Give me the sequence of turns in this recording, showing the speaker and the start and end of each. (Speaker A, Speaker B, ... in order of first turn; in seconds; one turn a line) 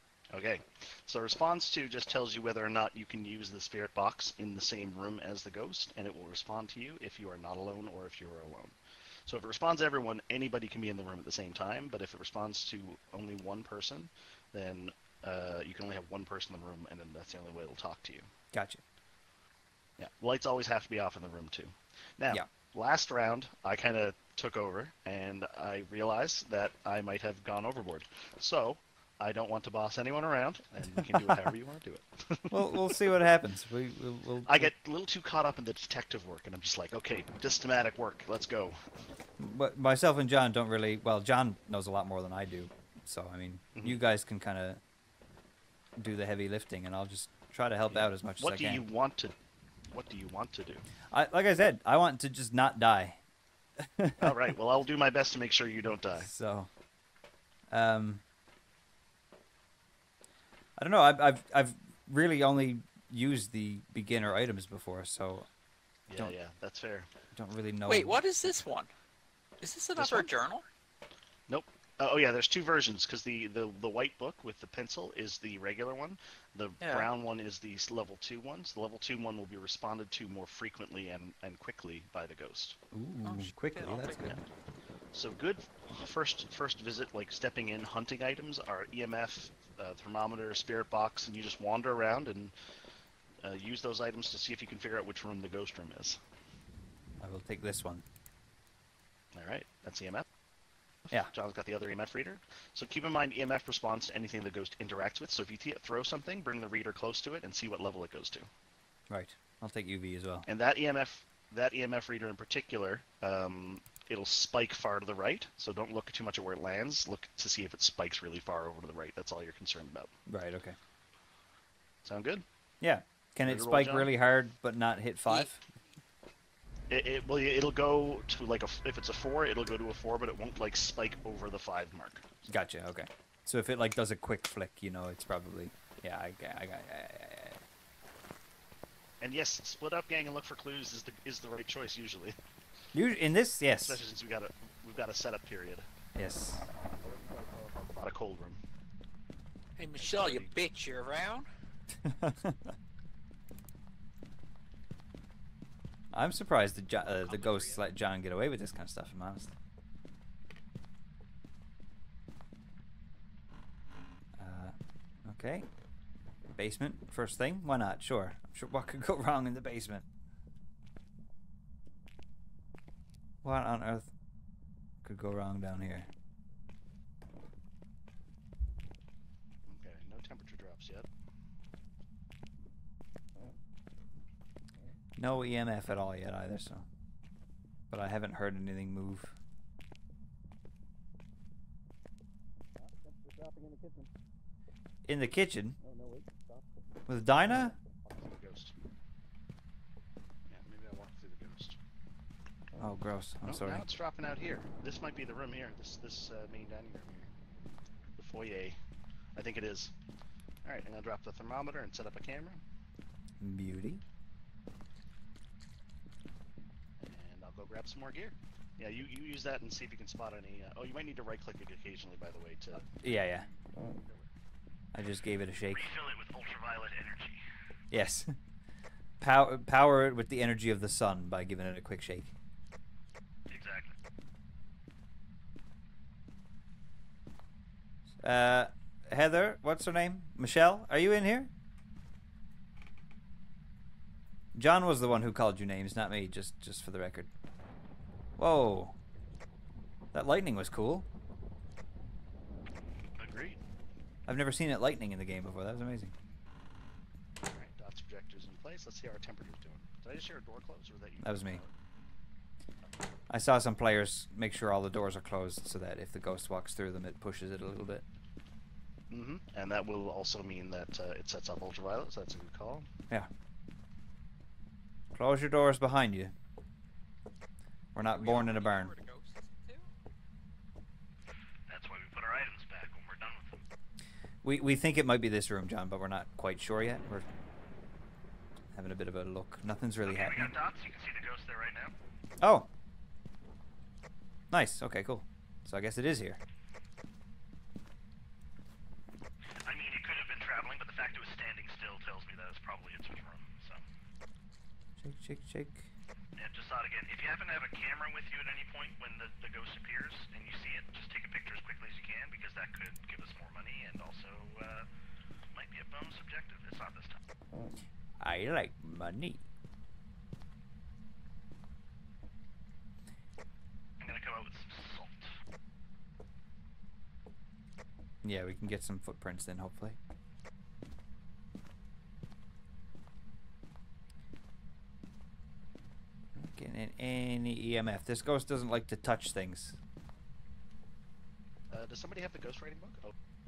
Speaker A: 0.3-8.8
Speaker A: 9.3-18.3
Speaker B: 18.5-18.8
Speaker A: 20.0-33.0
Speaker B: 32.5-34.7
Speaker A: 34.5-38.9
Speaker B: 39.4-44.8
Speaker B: 46.0-48.8
Speaker A: 47.9-49.3
Speaker A: 49.9-50.9
Speaker B: 51.1-53.2
Speaker B: 53.8-54.4
Speaker A: 54.2-56.3
Speaker B: 56.2-56.7
Speaker B: 57.7-58.2
Speaker B: 60.8-65.5
Speaker A: 66.1-67.1
Speaker B: 67.3-68.2
Speaker C: 67.9-68.9
Speaker C: 69.6-70.6
Speaker A: 70.0-70.3
Speaker A: 71.5-82.8
Speaker C: 76.8-77.1
Speaker B: 82.9-84.4
Speaker C: 83.2-84.3
Speaker A: 85.1-92.5
Speaker A: 93.4-96.2
Speaker B: 97.2-98.0
Speaker A: 99.3-100.2
Speaker A: 101.1-108.5
Speaker B: 109.1-110.5
Speaker A: 110.5-120.1
Speaker B: 120.3-120.8
Speaker A: 122.0-122.4
Speaker B: 122.8-125.6
Speaker A: 123.4-124.1
Speaker C: 125.3-125.5
Speaker A: 126.9-132.5
Speaker B: 132.5-137.6
Speaker A: 139.2-142.4
Speaker B: 142.9-144.0
Speaker A: 143.8-145.9
Speaker B: 146.1-146.7
Speaker A: 147.8-148.6
Speaker C: 149.8-151.4
Speaker A: 150.0-150.6
Speaker B: 152.0-152.7
Speaker B: 156.1-159.5
Speaker C: 157.2-157.8
Speaker B: 164.4-165.7
Speaker B: 166.5-170.0
Speaker B: 173.4-174.1
Speaker B: 175.0-176.1
Speaker A: 179.7-181.1
Speaker B: 185.2-186.8
Speaker B: 187.9-189.3
Speaker A: 192.8-194.1
Speaker B: 195.0-195.8
Speaker A: 195.8-196.7
Speaker B: 197.1-197.8
Speaker A: 198.1-198.7
Speaker A: 200.5-201.8
Speaker B: 202.8-203.8
Speaker A: 203.4-207.3
Speaker A: 208.2-208.8
Speaker A: 209.3-209.9
Speaker A: 210.6-212.6
Speaker B: 213.4-214.0
Speaker A: 217.0-222.9
Speaker B: 223.0-223.5
Speaker B: 224.9-225.9
Speaker A: 225.7-227.4
Speaker B: 227.9-228.3
Speaker B: 229.2-232.3
Speaker A: 233.5-233.9
Speaker B: 238.2-241.5
Speaker B: 244.5-247.3
Speaker B: 248.4-248.9
Speaker B: 250.1-251.1
Speaker A: 253.2-253.6
Speaker B: 254.3-256.1
Speaker A: 257.4-261.7
Speaker B: 261.2-261.6
Speaker B: 263.3-268.0
Speaker A: 269.1-272.9
Speaker B: 275.1-276.3
Speaker B: 277.9-278.9
Speaker C: 278.0-279.9
Speaker A: 281.7-283.6
Speaker B: 284.4-287.3
Speaker B: 288.7-290.5
Speaker A: 290.0-291.9
Speaker B: 292.4-292.7
Speaker B: 294.5-296.4
Speaker A: 299.6-303.8
Speaker B: 305.0-305.9
Speaker A: 306.4-314.9
Speaker A: 315.5-317.2
Speaker B: 318.2-319.4
Speaker A: 324.0-325.3
Speaker B: 328.2-330.0
Speaker B: 336.3-339.8
Speaker A: 341.7-343.1